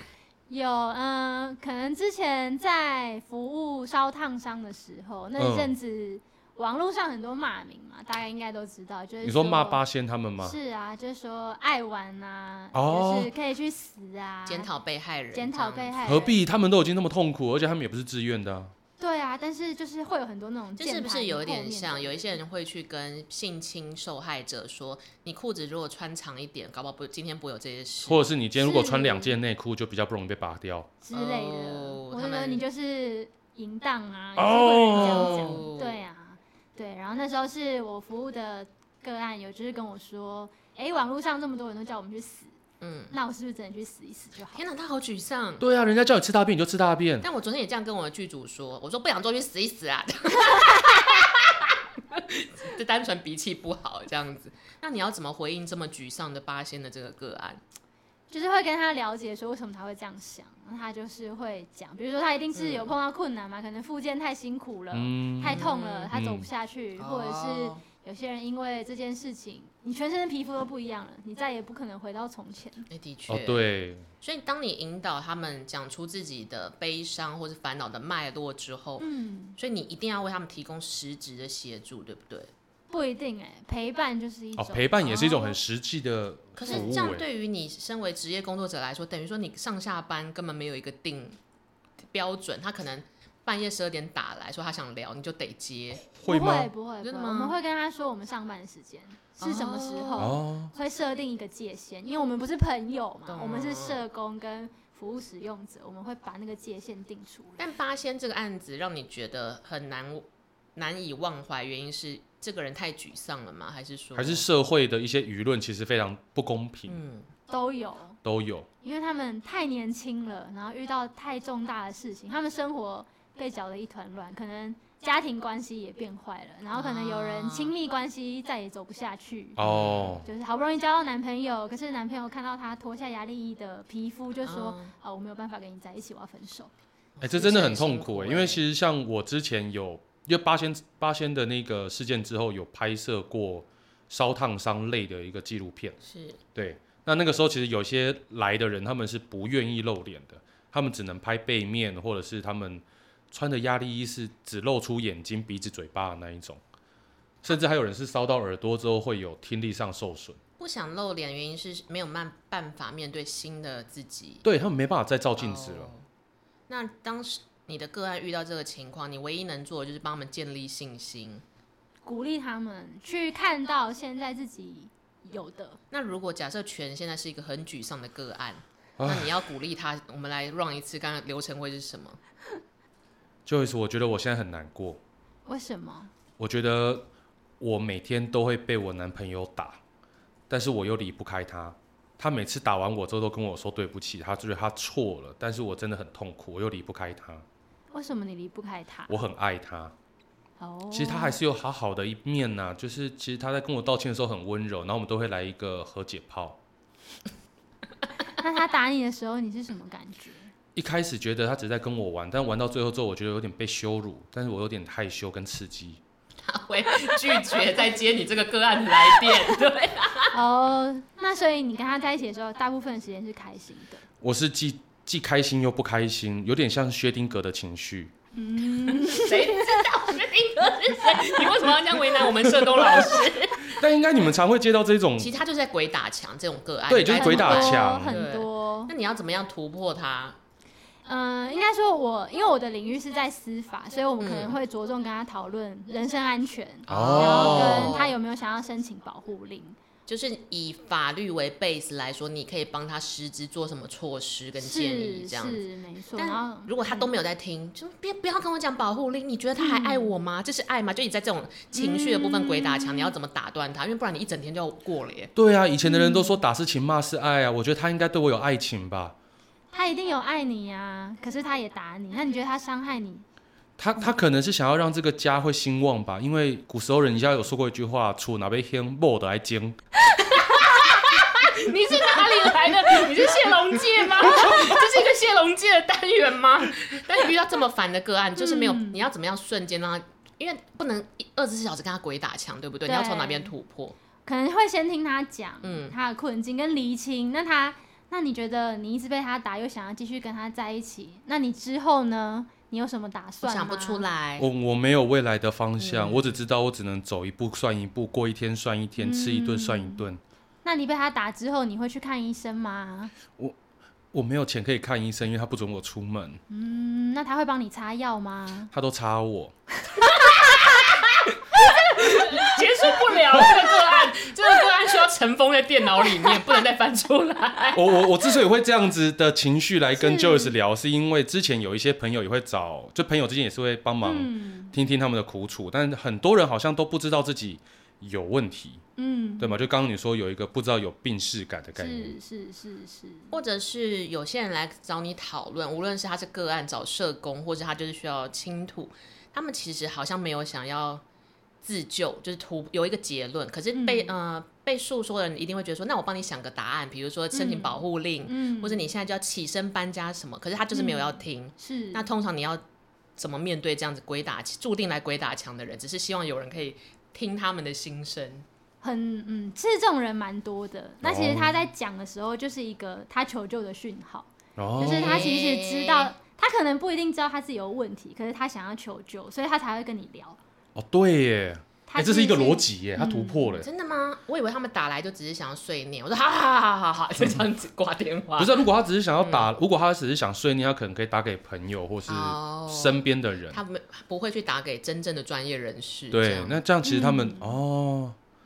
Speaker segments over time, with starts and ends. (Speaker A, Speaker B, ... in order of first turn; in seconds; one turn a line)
Speaker A: 0.5-9.8
Speaker B: 5.4-5.7
Speaker B: 9.2-10.6
Speaker A: 10.4-14.7
Speaker B: 12.7-13.3
Speaker C: 14.4-16.0
Speaker A: 15.3-16.4
Speaker B: 16.0-18.7
Speaker A: 19.0-22.4
Speaker C: 20.8-28.2
Speaker B: 28.1-30.9
Speaker A: 28.6-29.4
Speaker A: 31.0-42.5
Speaker C: 31.1-32.6
Speaker B: 34.4-35.6
Speaker C: 34.9-36.0
Speaker C: 42.8-43.1
Speaker A: 43.1-44.6
Speaker C: 44.5-45.6
Speaker B: 45.6-47.2
Speaker C: 47.2-57.6
Speaker A: 58.3-72.9
Speaker C: 62.5-62.9
Speaker B: 64.9-66.5
Speaker C: 65.4-66.1
Speaker C: 67.0-67.8
Speaker C: 72.9-73.7
Speaker B: 73.3-74.0
Speaker C: 74.2-79.0
Speaker A: 79.0-79.6
Speaker C: 79.6-82.5
Speaker A: 82.9-85.6
Speaker B: 84.6-87.2
Speaker C: 86.5-91.4
Speaker C: 92.1-96.1
Speaker B: 96.2-96.7
Speaker A: 96.2-107.6
Speaker C: 97.0-97.6
Speaker C: 99.4-100.3
Speaker B: 100.2-100.7
Speaker C: 103.3-104.0
Speaker C: 107.6-114.4
Speaker B: 114.1-117.0
Speaker C: 116.9-117.3
Speaker A: 117.5-118.2
Speaker B: 118.2-118.7
Speaker A: 118.8-136.7
Speaker C: 126.7-127.7
Speaker B: 129.6-130.3
Speaker C: 129.6-130.2
Speaker C: 134.4-134.9
Speaker C: 137.2-138.6
Speaker B: 137.2-145.9
Speaker C: 146.0-146.4
Speaker B: 146.5-156.6
Speaker B: 157.4-160.4
Speaker C: 160.6-164.4
Speaker B: 164.4-165.9
Speaker C: 165.4-166.0
Speaker C: 166.7-171.4
Speaker A: 172.0-175.8
Speaker C: 175.9-182.2
Speaker B: 179.0-179.4
Speaker B: 183.4-185.0
Speaker A: 185.4-186.1
Speaker B: 186.4-187.1
Speaker B: 187.6-189.8
Speaker B: 190.5-197.4
Speaker A: 197.9-199.1
Speaker B: 199.1-199.9
Speaker A: 200.6-201.4
Speaker B: 200.9-206.6
Speaker A: 208.4-210.5
Speaker B: 210.8-216.0
Speaker C: 216.4-220.3
Speaker A: 220.3-224.0
Speaker B: 224.2-228.1
Speaker A: 228.3-229.8
Speaker C: 229.1-233.8
Speaker B: 233.6-235.3
Speaker C: 235.2-240.4
Speaker B: 236.9-238.2
Speaker A: 237.1-238.9
Speaker A: 241.0-249.8
Speaker C: 244.2-244.6
Speaker B: 246.9-248.0
Speaker C: 246.9-248.1
Speaker C: 250.1-255.6
Speaker A: 254.6-257.1
Speaker C: 256.1-265.3
Speaker A: 259.6-260.1
Speaker A: 261.7-263.1
Speaker B: 265.4-269.1
Speaker A: 265.8-266.4
Speaker A: 269.7-273.2
Speaker B: 273.8-279.8
Speaker C: 280.2-293.9
Speaker A: 288.4-289.0
Speaker A: 292.9-293.5
Speaker A: 294.2-304.0
Speaker C: 295.6-295.9
Speaker C: 303.4-304.5
Speaker B: 304.4-310.2
Speaker C: 305.8-306.4
Speaker A: 309.0-310.0
Speaker A: 310.6-313.1
Speaker B: 314.1-316.4
Speaker A: 316.5-318.7
Speaker B: 318.7-319.5
Speaker C: 320.0-328.0
Speaker B: 323.3-323.6
Speaker B: 327.7-338.8
Speaker A: 329.9-330.5
Speaker A: 334.0-334.7
Speaker A: 339.0-339.6
Speaker B: 339.4-342.1
Speaker A: 341.8-343.3
Speaker C: 343.3-351.0
Speaker C: 351.6-362.6
Speaker A: 353.7-354.1
Speaker A: 357.3-358.9
Speaker A: 360.7-362.1
Speaker C: 363.2-368.4
Speaker A: 368.8-380.4
Speaker B: 371.0-371.6
Speaker B: 374.6-375.3
Speaker C: 374.8-376.1
Speaker B: 380.7-383.7
Speaker A: 381.9-383.4
Speaker C: 383.3-388.6
Speaker B: 388.4-393.6
Speaker C: 389.2-389.5
Speaker C: 392.1-396.6
Speaker B: 396.1-398.1
Speaker A: 396.8-397.6